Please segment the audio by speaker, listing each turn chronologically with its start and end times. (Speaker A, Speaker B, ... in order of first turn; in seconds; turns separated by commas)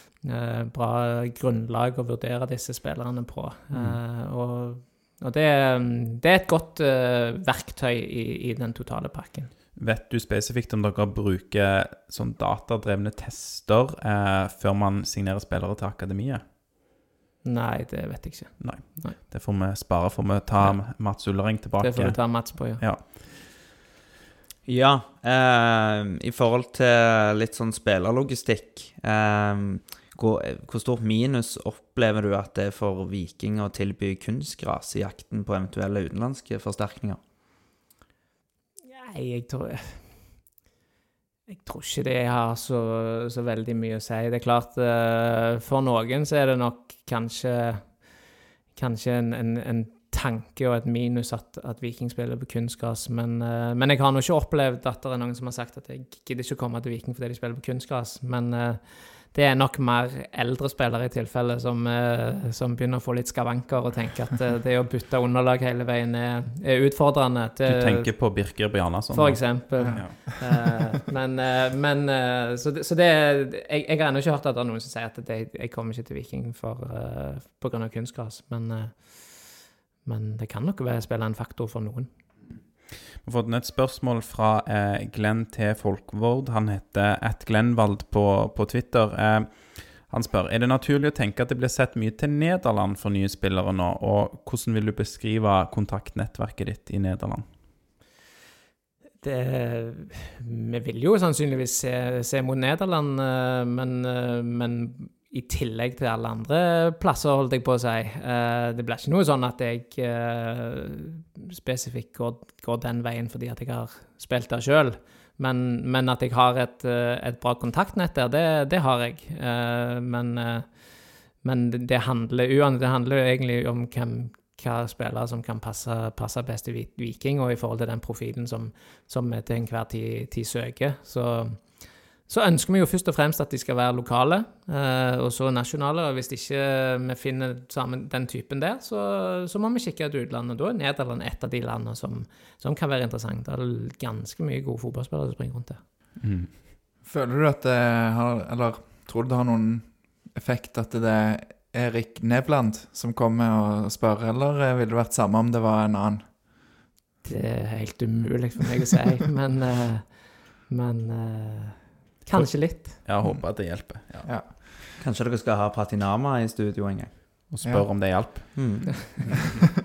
Speaker A: 0.2-9.5, Speaker B: 3.7-4.0, Speaker B: 9.7-16.4, Speaker A: 17.4-19.1, Speaker B: 18.6-23.2, Speaker A: 21.8-22.8, Speaker C: 24.6-37.2, Speaker A: 38.9-40.0, Speaker A: 41.5-48.0, Speaker A: 48.8-68.4, Speaker B: 67.6-70.5, Speaker A: 69.1-82.1, Speaker D: 69.8-70.2, Speaker B: 83.2-97.5, Speaker A: 99.2-120.8, Speaker A: 121.4-145.8, Speaker B: 146.2-146.5, Speaker D: 147.0-156.3, Speaker A: 157.2-162.9, Speaker B: 162.3-164.3, Speaker D: 163.2-164.7, Speaker C: 165.0-167.5, Speaker B: 167.5-169.0, Speaker C: 168.6-169.4